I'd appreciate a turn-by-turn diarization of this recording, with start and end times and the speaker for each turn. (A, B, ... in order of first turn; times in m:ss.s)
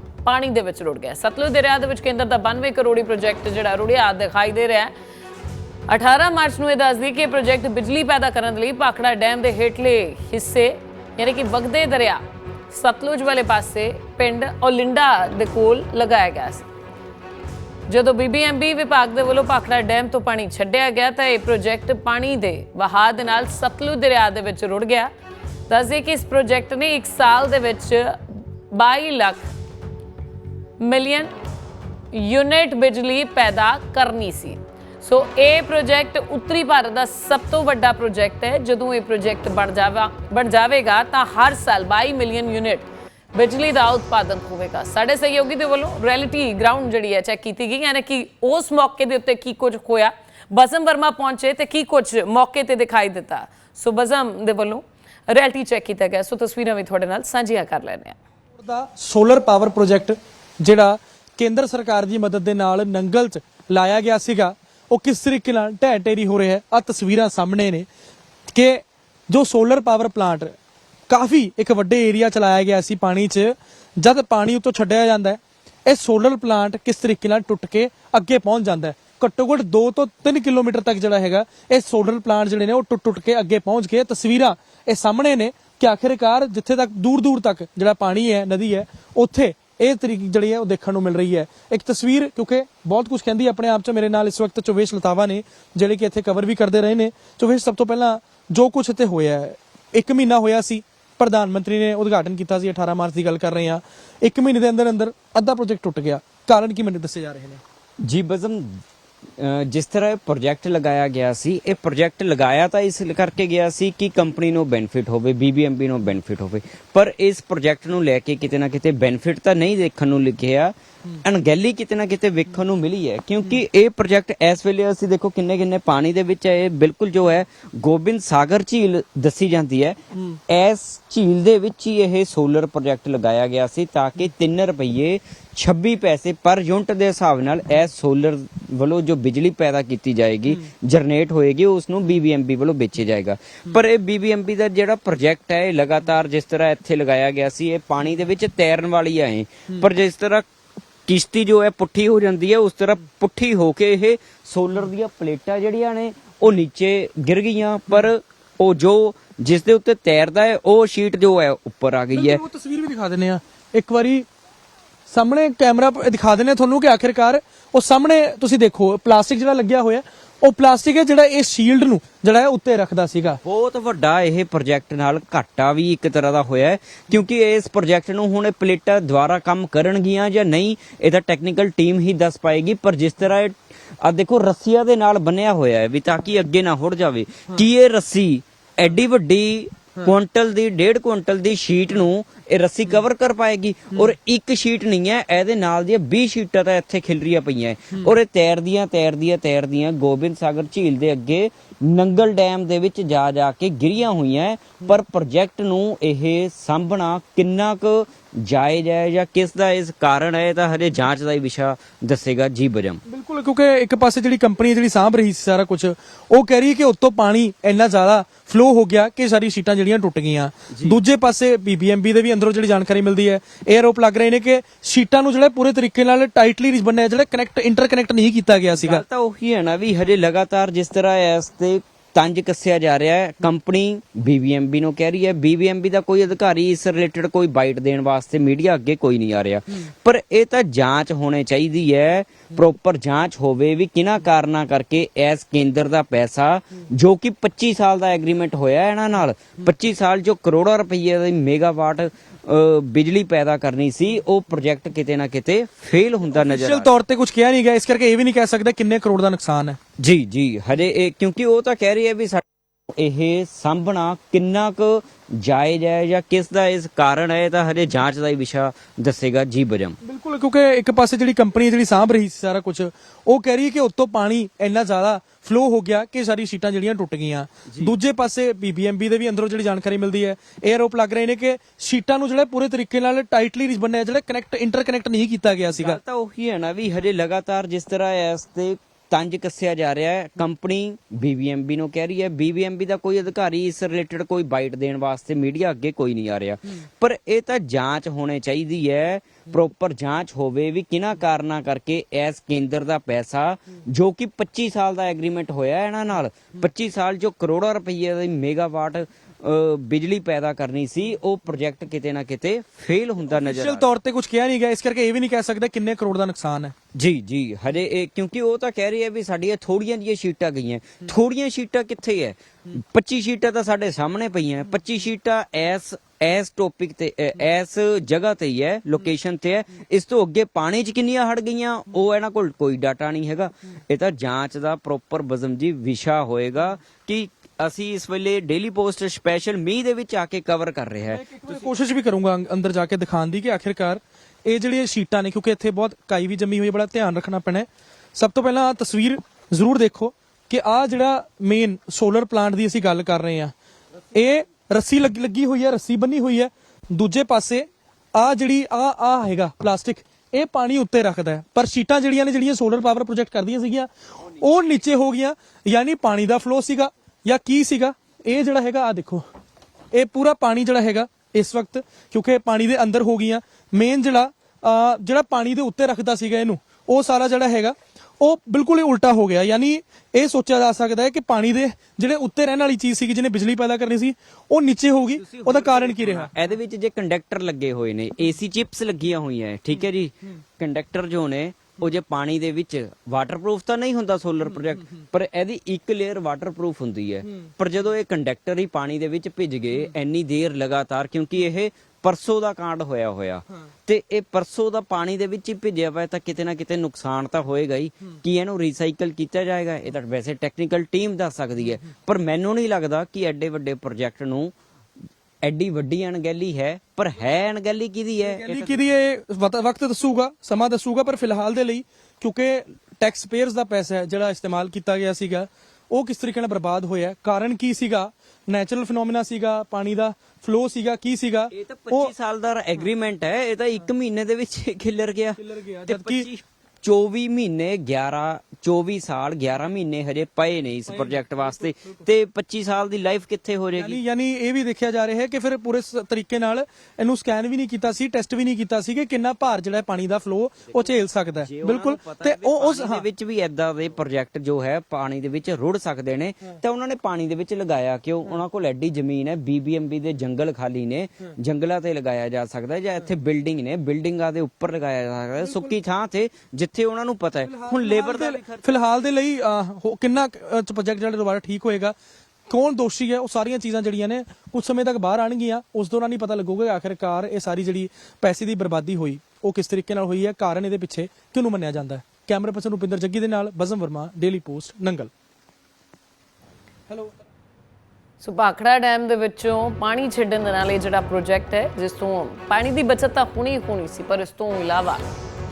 0:00.2-0:04.9 A
0:05.9-0:16.7 A
0:17.9-0:25.1 A
0:25.7-0:28.2 A
0:28.7-0:29.5 A
0:30.8-0:31.3 A
0:32.1-0:58.2 A
0:58.6-1:07.9 B
1:08.5-1:10.6 B
1:11.1-1:47.6 B
1:48.1-1:48.7 C
1:49.4-2:30.5 C
2:31.1-2:42.4 C
2:42.1-2:44.3 B
2:45.1-2:53.4 B
2:53.4-3:33.0 C
3:33.1-3:49.0 B
3:40.7-3:41.0 C
3:48.7-4:16.9 C
4:16.3-4:19.8 B
4:20.0-4:22.4 C
4:23.0-4:30.0 C
4:30.0-4:46.0 B
4:45.7-5:13.9 C
5:13.3-5:16.7 B
5:17.0-5:41.3 C
5:41.1-5:53.5 B
5:54.1-6:09.3 B
6:09.9-6:26.3 B
6:25.2-6:54.5 C
6:55.4-6:58.8 C
6:58.2-7:12.1 B
7:11.5-7:24.0 C
7:15.4-7:16.3 B
7:20.9-7:21.4 B
7:23.8-7:33.0 B
7:31.4-7:48.7 C
7:47.4-7:52.0 B
7:52.5-8:05.1 B
8:06.9-8:07.2 B
8:08.2-8:15.0 A